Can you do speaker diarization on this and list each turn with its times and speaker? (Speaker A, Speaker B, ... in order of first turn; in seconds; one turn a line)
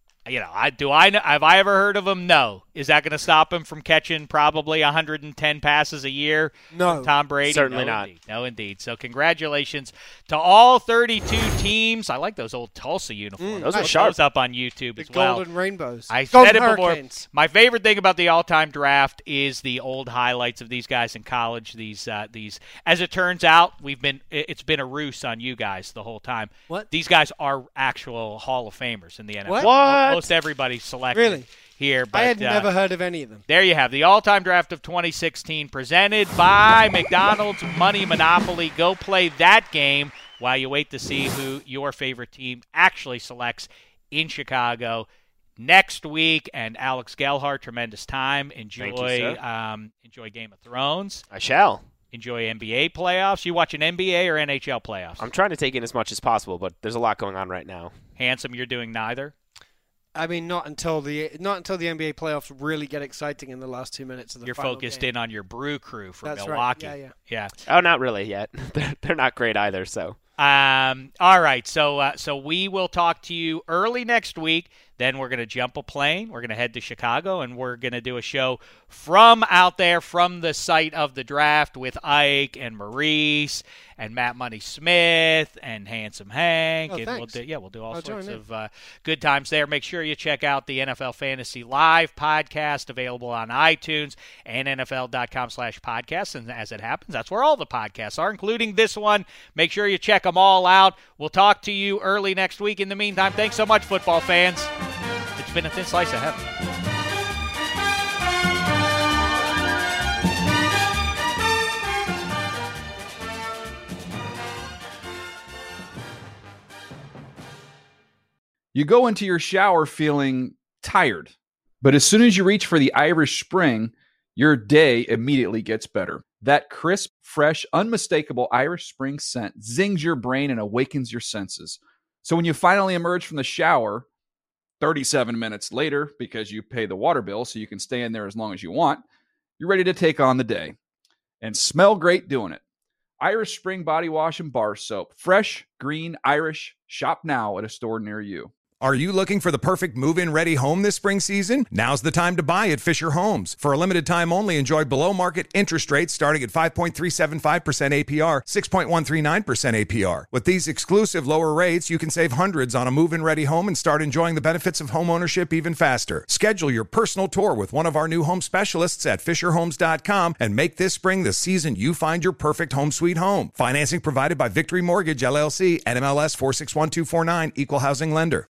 Speaker A: 0.3-15.4
Speaker B: 6.7-7.1
Speaker C: 7.5-8.1
Speaker B: 13.4-13.9
Speaker C: 13.6-14.2
Speaker B: 15.0-17.2
Speaker A: 16.1-32.7
Speaker C: 29.6-30.3
Speaker B: 31.1-31.4
Speaker B: 32.1-33.4
Speaker A: 33.5-45.1
Speaker A: 45.6-51.2
Speaker C: 48.8-49.4
Speaker C: 51.3-51.8
Speaker A: 52.1-55.2
Speaker C: 55.2-57.9
Speaker A: 58.2-59.3
Speaker B: 60.1-65.0
Speaker A: 64.5-67.5
Speaker B: 66.2-67.1
Speaker C: 67.7-70.2
Speaker A: 70.4-104.7
Speaker B: 86.9-87.4
Speaker B: 87.9-88.4
Speaker A: 105.4-106.5
Speaker D: 118.7-134.1
Speaker D: 134.8-139.0
Speaker D: 139.6-140.8
Speaker D: 141.4-142.6
Speaker D: 143.2-148.5
Speaker E: 148.8-178.5